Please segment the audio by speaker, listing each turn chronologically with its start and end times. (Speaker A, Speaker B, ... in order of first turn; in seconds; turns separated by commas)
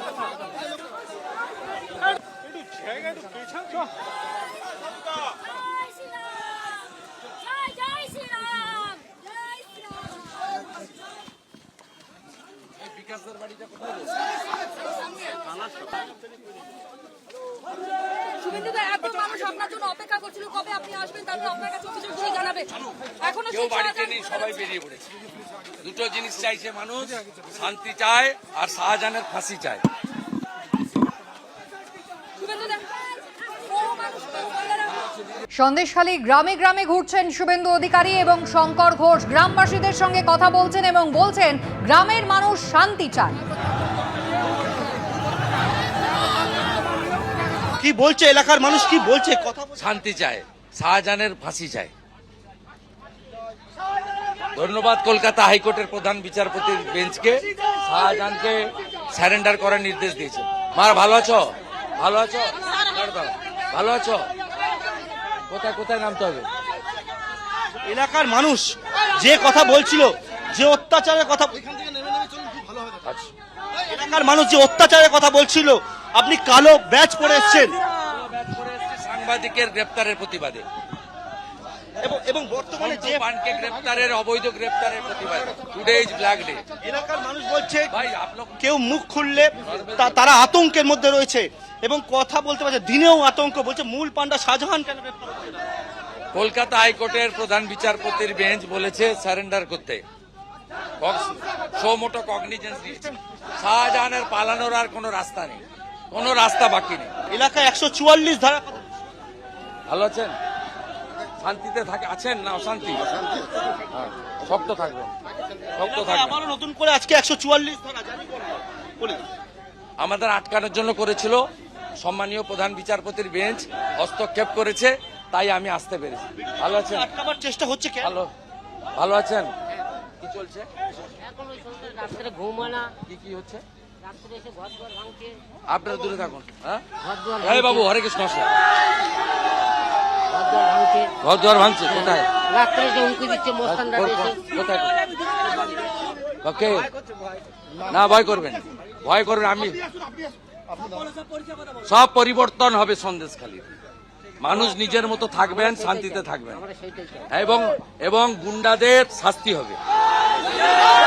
Speaker A: 7.6-9.1, Speaker B: 12.8-14.0, Speaker A: 18.4-23.5, Speaker B: 23.4-25.1, Speaker B: 25.8-29.8, Speaker A: 32.4-35.0, Speaker C: 35.5-43.4, Speaker D: 47.8-49.9, Speaker B: 49.8-51.9, Speaker B: 54.6-64.3, Speaker B: 65.5-66.5, Speaker D: 67.8-71.8, Speaker B: 73.0-73.3, Speaker D: 73.9-77.8, Speaker B: 78.0-80.7, Speaker D: 82.0-83.2, Speaker B: 82.8-86.7, Speaker D: 86.8-87.9, Speaker B: 87.9-88.6, Speaker D: 88.6-95.6, Speaker B: 89.6-90.3, Speaker B: 96.3-100.0, Speaker B: 101.0-107.2, Speaker D: 107.3-108.9, Speaker B: 109.9-110.4, Speaker B: 111.4-113.1, Speaker B: 113.9-115.1, Speaker B: 115.8-116.4, Speaker D: 115.8-119.2, Speaker B: 120.0-121.4, Speaker B: 122.0-127.1, Speaker D: 126.4-128.1, Speaker B: 128.0-128.3, Speaker B: 129.0-129.5, Speaker B: 130.2-130.7, Speaker E: 131.2-132.9, Speaker B: 133.1-133.6, Speaker E: 134.1-135.4, Speaker B: 135.7-136.8, Speaker E: 137.1-137.6, Speaker B: 137.4-138.5, Speaker E: 140.3-141.1, Speaker B: 141.2-142.3, Speaker E: 142.5-144.3, Speaker B: 143.6-144.9, Speaker B: 146.4-146.9, Speaker B: 147.9-149.8, Speaker B: 151.9-153.7, Speaker B: 154.4-156.7, Speaker E: 156.8-157.2, Speaker B: 157.3-159.8